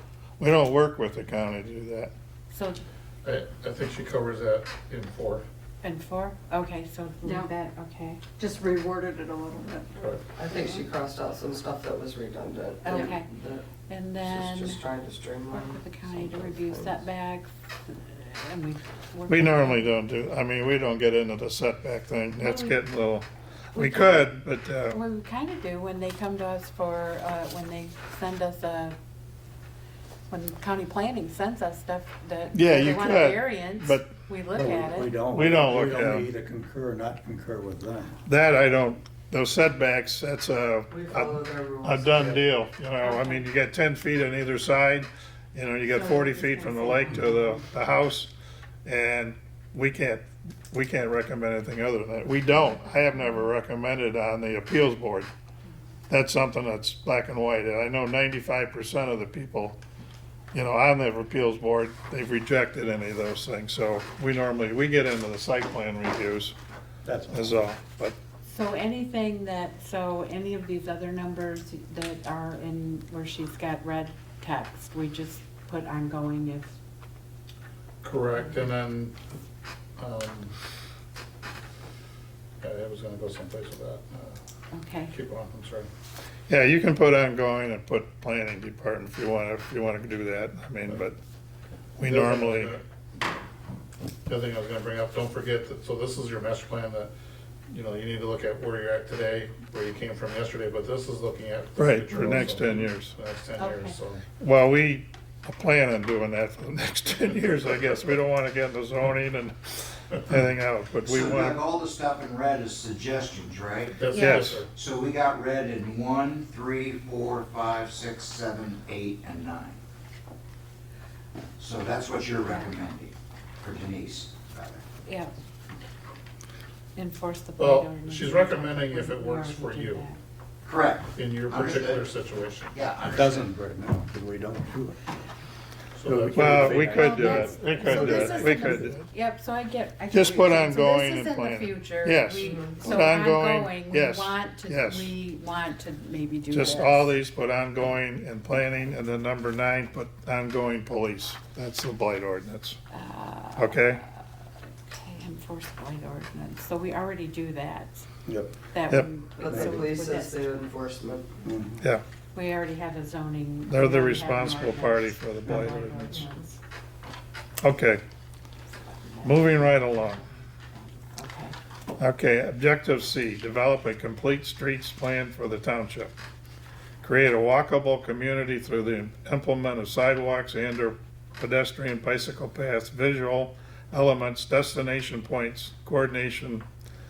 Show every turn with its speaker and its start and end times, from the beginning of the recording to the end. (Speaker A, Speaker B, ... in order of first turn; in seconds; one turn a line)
Speaker A: 0.4-2.1
Speaker B: 2.5-2.8
Speaker C: 3.2-5.4
Speaker B: 5.8-8.2
Speaker D: 7.2-7.5
Speaker D: 8.4-10.1
Speaker E: 10.3-13.7
Speaker B: 12.8-13.3
Speaker B: 13.9-14.8
Speaker E: 14.2-17.0
Speaker B: 15.5-19.9
Speaker A: 19.3-25.0
Speaker B: 22.4-22.8
Speaker B: 23.7-24.3
Speaker B: 24.9-28.9
Speaker B: 30.3-35.2
Speaker A: 32.5-34.1
Speaker F: 34.5-38.2
Speaker A: 35.3-36.3
Speaker A: 38.2-48.3
Speaker E: 40.9-42.4
Speaker B: 43.0-43.4
Speaker B: 45.9-47.7
Speaker A: 48.8-55.3
Speaker A: 56.1-59.8
Speaker A: 60.5-66.5
Speaker F: 67.0-67.6
Speaker A: 67.3-68.2
Speaker B: 68.5-76.8
Speaker C: 78.0-79.1
Speaker C: 80.0-80.5
Speaker C: 82.6-84.4
Speaker B: 84.7-85.1
Speaker C: 85.1-85.9
Speaker A: 86.5-91.2
Speaker A: 92.0-92.7
Speaker C: 92.0-92.8
Speaker C: 94.3-97.1
Speaker C: 97.7-104.2
Speaker A: 101.8-103.1
Speaker B: 103.6-104.0
Speaker A: 104.4-111.6
Speaker G: 111.0-119.8
Speaker C: 114.0-114.7
Speaker A: 114.1-114.6
Speaker G: 121.6-124.8
Speaker B: 122.5-122.7
Speaker B: 125.0-125.3
Speaker B: 127.0-130.2
Speaker C: 127.6-130.0
Speaker G: 130.6-132.1
Speaker C: 131.1-132.7
Speaker G: 132.7-133.5
Speaker F: 133.1-135.0
Speaker C: 135.9-136.9
Speaker F: 136.0-138.9
Speaker A: 136.3-139.1
Speaker B: 136.8-147.1
Speaker A: 140.1-145.1
Speaker E: 142.4-143.0
Speaker A: 146.5-152.8
Speaker B: 152.9-154.2
Speaker A: 153.6-154.0
Speaker B: 154.9-158.1
Speaker F: 158.2-158.6
Speaker B: 158.7-160.3
Speaker E: 159.4-161.3
Speaker F: 159.5-159.8
Speaker F: 161.4-161.8
Speaker B: 162.3-166.6
Speaker A: 163.7-166.2
Speaker A: 167.6-168.0
Speaker B: 168.8-171.6
Speaker A: 169.2-170.2
Speaker A: 172.0-176.1
Speaker A: 177.0-186.6